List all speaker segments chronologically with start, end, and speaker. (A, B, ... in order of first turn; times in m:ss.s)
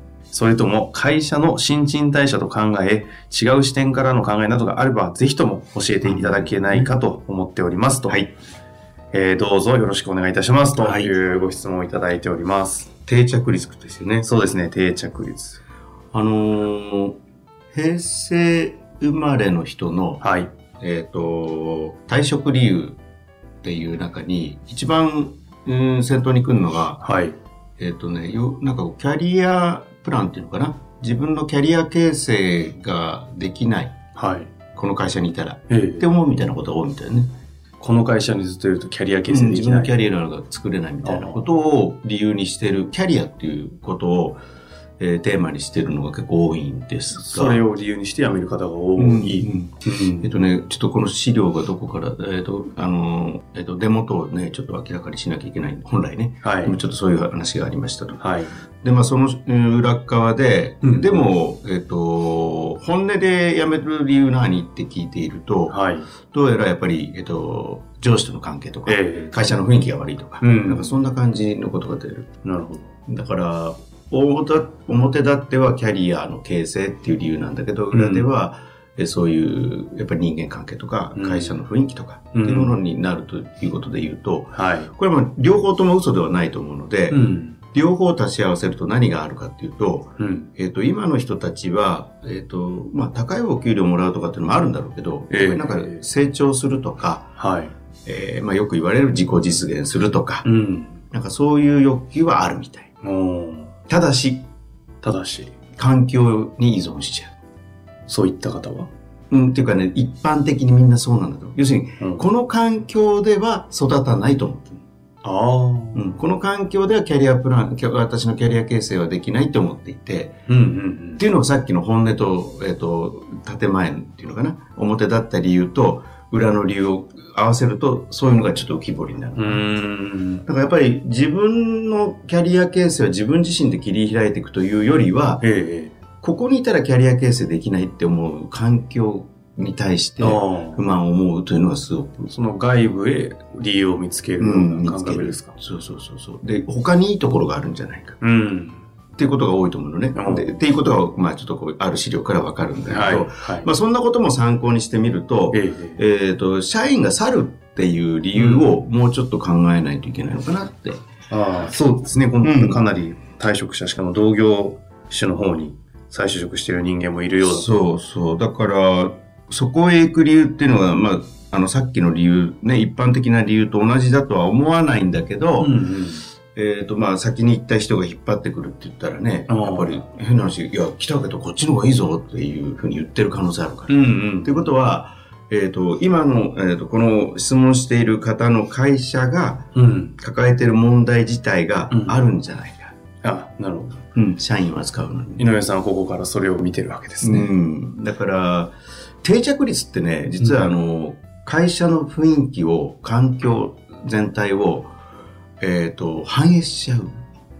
0:00.3-0:08.2 A
0:06.0-0:06.9 B
0:09.1-0:12.9 A
0:10.8-0:11.1 B
0:13.1-0:14.3 B
0:14.2-0:15.6 A
0:16.1-0:17.2 B
0:17.7-0:20.2 B
0:20.2-0:20.5 A
0:20.8-0:23.0 B
0:23.6-0:27.0 B
0:27.0-0:27.4 A
0:27.8-0:34.0 B
0:34.2-0:34.5 A
0:34.8-0:37.3 B
0:35.7-0:36.1 A
0:37.8-0:40.0 A
0:39.3-0:44.4 B
0:41.0-0:41.5 A
0:45.0-0:47.6 B
0:47.2-0:50.3 A
0:49.0-0:58.2 B
0:56.4-0:56.8 A
0:58.2-0:58.5 A
0:58.8-1:05.8 B
1:00.8-1:01.1 A
1:05.7-1:06.1 A
1:06.3-1:12.3 B
1:08.9-1:09.4 A
1:10.4-1:11.0 A
1:12.4-1:12.9 A
1:13.1-1:27.2 B
1:17.9-1:18.3 A
1:21.2-1:21.6 A
1:22.3-1:22.8 A
1:24.5-1:24.9 A
1:27.1-1:27.6 A
1:27.7-1:37.3 B
1:30.2-1:30.5 A
1:35.3-1:36.0 A
1:37.4-1:37.7 A
1:38.0-1:40.4 B
1:40.4-1:41.0 A
1:41.1-1:42.9 B
1:43.0-1:43.7 A
1:43.9-1:44.5 B
1:45.0-1:45.5 A
1:45.8-1:47.4 B
1:48.1-1:48.9 A
1:49.3-1:54.8 B
1:55.2-1:56.2 A
1:56.0-2:00.4 B
2:00.5-2:01.2 A
2:01.2-2:09.6 B
2:09.4-2:10.4 A
2:10.5-2:15.4 B
2:15.4-2:16.0 A
2:16.2-2:22.1 B
2:20.2-2:20.8 A
2:22.2-2:25.6 A
2:24.4-2:28.2 B
2:28.2-2:28.8 A
2:29.2-2:41.0 B
2:30.2-2:30.6 A
2:32.9-2:33.7 A
2:35.5-2:36.0 A
2:38.4-2:38.7 A
2:41.3-2:47.7 A
2:42.4-2:42.8 B
2:47.4-2:55.8 B
2:55.6-2:56.3 A
2:56.5-3:09.7 B
2:59.5-3:00.0 A
3:03.9-3:04.7 A
3:09.8-3:10.2 A
3:10.2-3:12.9 B
3:11.9-3:12.3 A
3:13.2-3:14.0 A
3:14.2-3:15.4 B
3:15.4-3:17.5 A
3:17.2-3:24.9 B
3:20.4-3:20.7 A
3:25.6-3:27.1 B